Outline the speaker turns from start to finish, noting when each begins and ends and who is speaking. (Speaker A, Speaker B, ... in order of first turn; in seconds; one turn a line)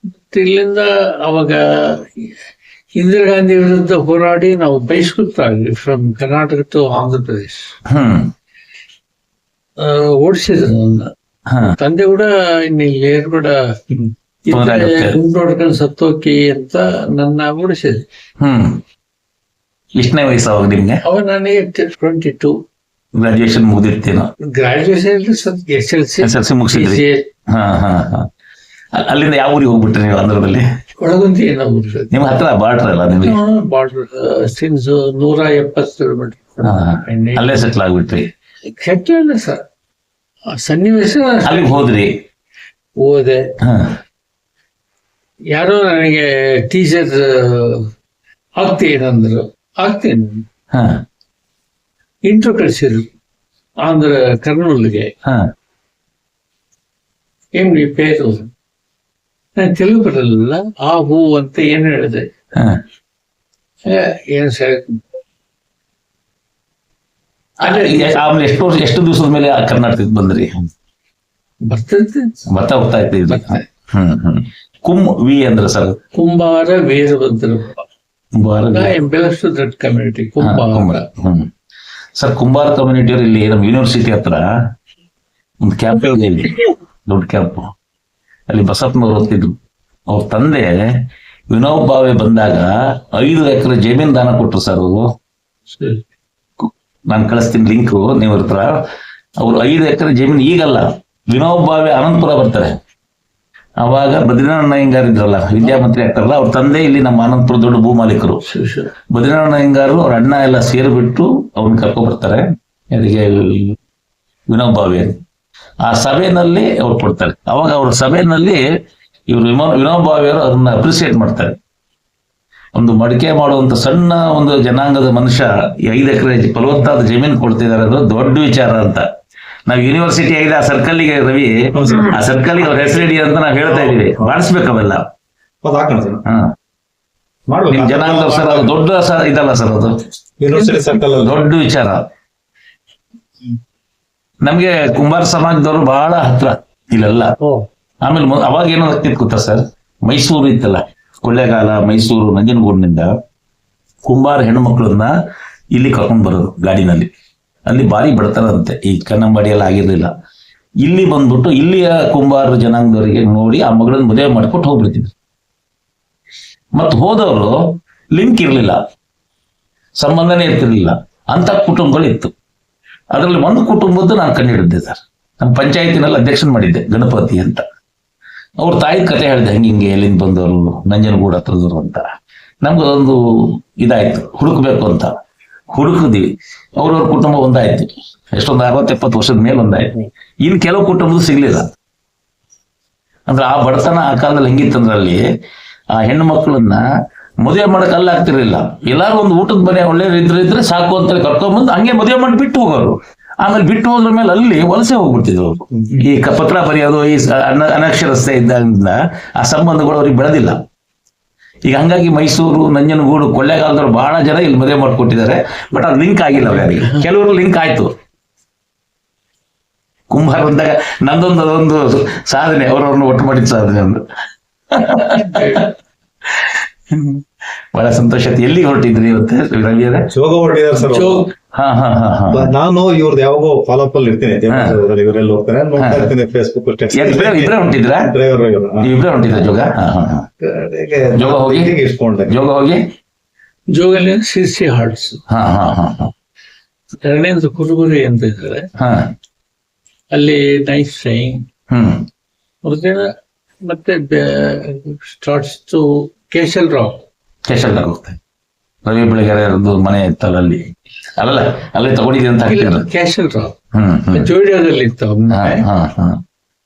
Speaker A: 0.3-2.3
Speaker A: 3.0-7.7
Speaker B: 7.9-8.3
Speaker A: 9.8-11.1
Speaker B: 11.5-11.8
Speaker A: 11.7-18.1
Speaker B: 14.5-15.2
Speaker B: 18.4-18.8
Speaker B: 20.0-21.0
Speaker A: 21.0-22.6
Speaker B: 23.2-24.3
Speaker A: 24.5-27.3
Speaker B: 26.2-28.3
Speaker B: 28.9-30.6
Speaker A: 31.0-32.1
Speaker B: 32.1-33.4
Speaker A: 33.2-37.7
Speaker B: 36.6-38.3
Speaker A: 38.7-39.6
Speaker A: 40.5-41.9
Speaker B: 41.4-42.2
Speaker A: 43.0-43.5
Speaker B: 43.6-44.0
Speaker A: 45.5-47.9
Speaker A: 48.6-50.5
Speaker B: 50.7-51.0
Speaker A: 52.2-53.1
Speaker A: 53.8-55.1
Speaker A: 57.5-58.5
Speaker A: 59.6-62.3
Speaker A: 63.9-65.0
Speaker B: 67.6-70.5
Speaker A: 67.6-68.2
Speaker A: 71.6-72.4
Speaker B: 72.5-76.0
Speaker A: 73.3-73.6
Speaker A: 76.1-77.8
Speaker B: 78.4-79.0
Speaker A: 78.7-81.1
Speaker B: 80.4-81.5
Speaker B: 82.2-84.5
Speaker B: 85.6-87.7
Speaker B: 88.5-89.5
Speaker B: 90.1-90.9
Speaker B: 91.5-95.1
Speaker A: 95.7-96.0
Speaker B: 96.6-98.8
Speaker B: 99.4-102.8
Speaker B: 103.8-108.4
Speaker A: 108.5-108.9
Speaker B: 109.1-113.8
Speaker B: 114.5-115.2
Speaker B: 115.8-118.6
Speaker B: 119.3-121.5
Speaker B: 122.8-129.1
Speaker B: 129.7-135.0
Speaker C: 131.7-132.2
Speaker C: 133.7-134.3
Speaker C: 135.6-136.2
Speaker B: 136.2-136.5
Speaker C: 137.5-138.7
Speaker B: 137.7-140.0
Speaker C: 140.4-141.4
Speaker A: 140.6-140.8
Speaker B: 141.2-142.0
Speaker B: 144.4-147.3
Speaker B: 148.0-153.1
Speaker B: 154.1-155.1
Speaker B: 155.7-157.1
Speaker B: 157.7-160.1
Speaker B: 160.8-165.1
Speaker B: 166.8-168.8
Speaker B: 170.0-172.3
Speaker B: 173.1-177.6
Speaker B: 178.6-182.1
Speaker B: 182.6-185.2
Speaker B: 185.7-191.7
Speaker B: 193.3-195.2
Speaker B: 196.0-196.8
Speaker B: 197.4-210.6
Speaker B: 211.7-217.9
Speaker A: 216.3-217.1
Speaker B: 220.1-224.0
Speaker B: 224.7-225.6
Speaker A: 225.0-225.7
Speaker B: 226.4-227.2
Speaker B: 227.7-230.1
Speaker C: 230.1-231.3
Speaker A: 230.8-231.3
Speaker B: 231.5-232.5
Speaker C: 232.3-238.9
Speaker B: 234.5-234.8
Speaker B: 235.8-236.1
Speaker B: 236.9-238.1
Speaker B: 238.8-240.3
Speaker C: 240.4-242.4
Speaker B: 241.2-241.8
Speaker B: 242.3-242.8
Speaker A: 243.7-245.2
Speaker B: 245.3-246.1
Speaker A: 247.0-248.7
Speaker B: 248.8-249.1
Speaker A: 250.1-251.5
Speaker B: 251.7-252.1
Speaker A: 252.6-253.1
Speaker A: 253.6-257.0
Speaker B: 257.5-258.2
Speaker B: 258.9-262.9
Speaker A: 262.5-263.6
Speaker B: 263.7-264.3
Speaker A: 264.1-265.7
Speaker B: 265.3-266.2